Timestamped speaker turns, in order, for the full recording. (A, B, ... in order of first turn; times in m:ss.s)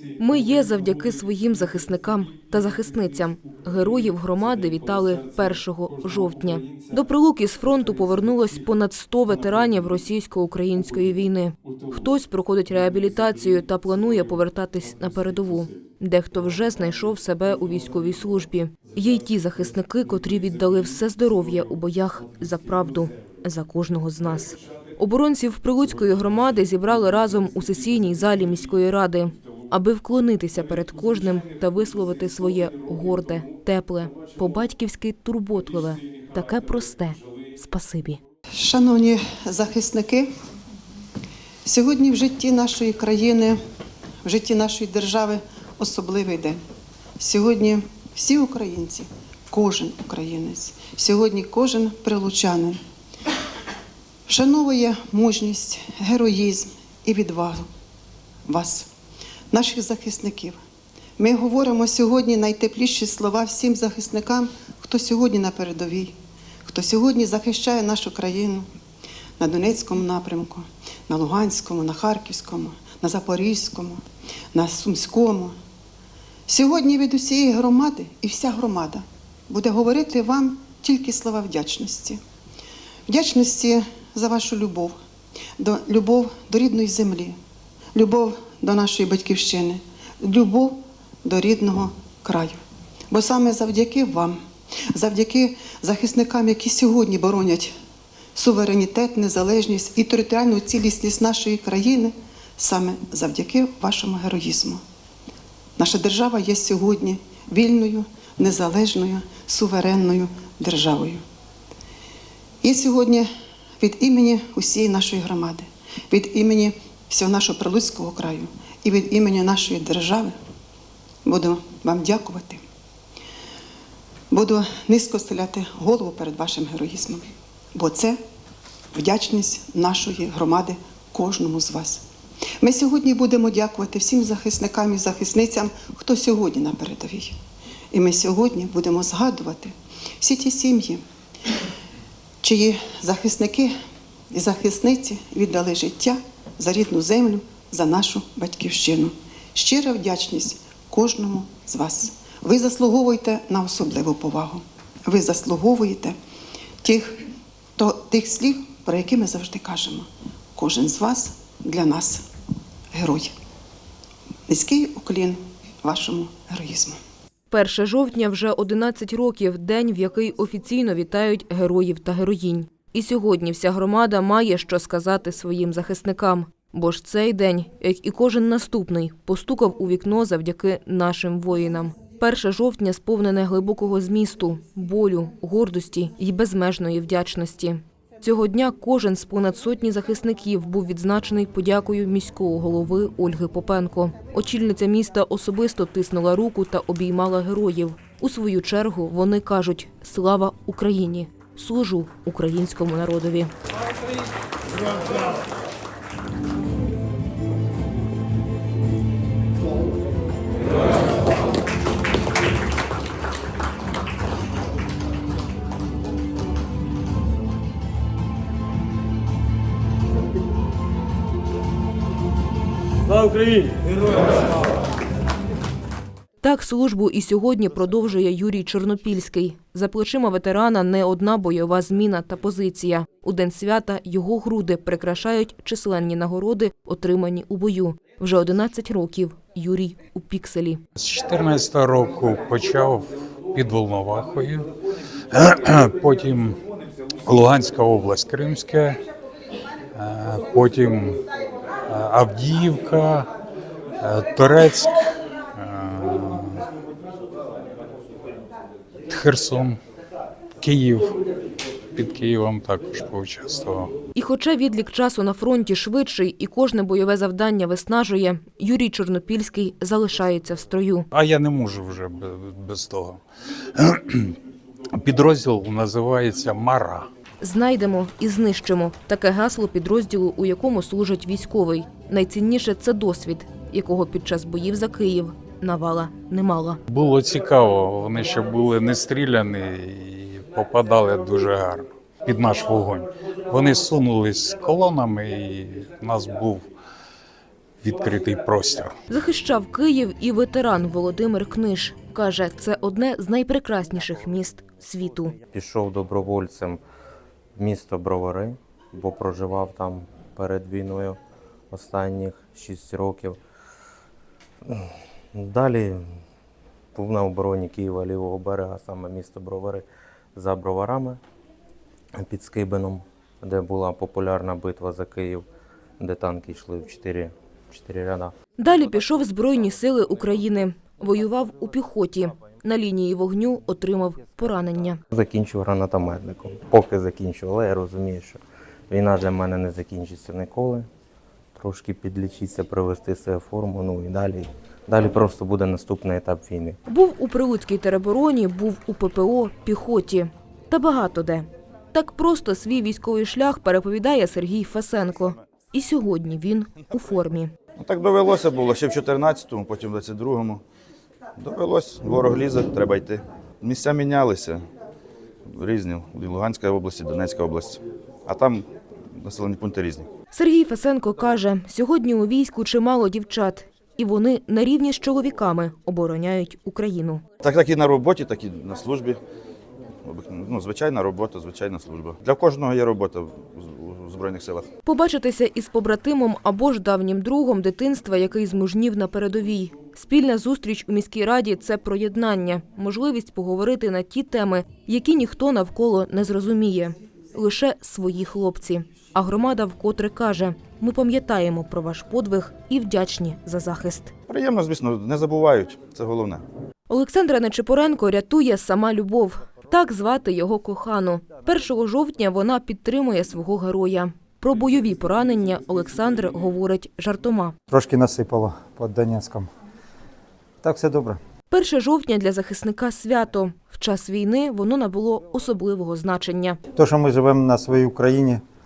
0:00.2-0:38.2 A
0:38.6-0:40.3 B
0:41.6-0:43.6 B
0:44.2-0:46.6 B
0:47.2-0:52.8 B
0:54.3-0:57.7 B
0:58.5-0:58.9 B
0:59.5-1:00.6 B
1:01.2-1:08.7 B
1:09.4-1:14.0 B
1:14.5-1:15.6 B
1:16.5-1:22.2 B
1:23.1-1:25.0 B
1:25.6-1:27.4 B
1:28.0-1:34.4 B
1:34.9-1:37.7 B
1:38.4-1:44.8 B
1:45.8-1:51.2 B
1:52.6-1:53.3 B
1:53.8-2:00.3 B
2:01.2-2:02.6 B
2:04.3-2:08.2 B
2:09.0-2:12.0 B
2:12.6-2:17.4 B
2:17.9-2:21.0 B
2:22.4-2:23.7 B
2:24.3-2:36.2 B
2:36.8-2:37.2 B
2:37.8-2:42.2 B
2:42.9-2:43.3 B
2:44.5-2:47.0 B
2:47.5-3:23.5 A
3:46.4-4:00.8 A
4:01.0-4:04.7 C
4:05.3-4:06.6 C
4:07.2-4:09.0 C
4:10.0-4:11.2 C
4:11.9-4:13.3 C
4:14.0-4:15.0 C
4:15.6-4:16.6 C
4:19.1-4:19.8 C
4:20.6-4:21.2 C
4:22.0-4:23.9 C
4:24.2-4:31.1 A
4:31.1-4:33.2 C
4:33.8-4:34.4 C
4:35.0-4:37.1 C
4:37.4-4:46.8 A
4:46.9-4:56.6 C
4:57.8-4:58.9 C
4:59.1-5:05.4 A
5:05.5-5:06.8 D
5:07.6-5:11.2 D
5:11.7-5:13.4 D
5:14.7-5:16.0 D
5:17.0-5:21.2 D
5:22.2-5:25.4 D
5:26.0-5:28.3 D
5:28.6-5:35.0 A
5:35.1-5:40.9 D
5:41.6-5:46.8 D
5:46.9-5:57.5 A
5:57.8-6:00.6 E
6:01.4-6:04.6 E
6:05.6-6:08.7 E
6:09.2-6:10.1 E
6:10.3-6:17.2 A
6:17.4-6:19.2 E
6:20.0-6:24.7 E
6:24.8-6:44.1 A
6:44.3-6:46.4 E
6:46.9-6:57.5 A
6:57.7-6:59.5 F
7:00.6-7:01.2 F
7:01.5-7:06.6 A
7:06.7-7:08.4 F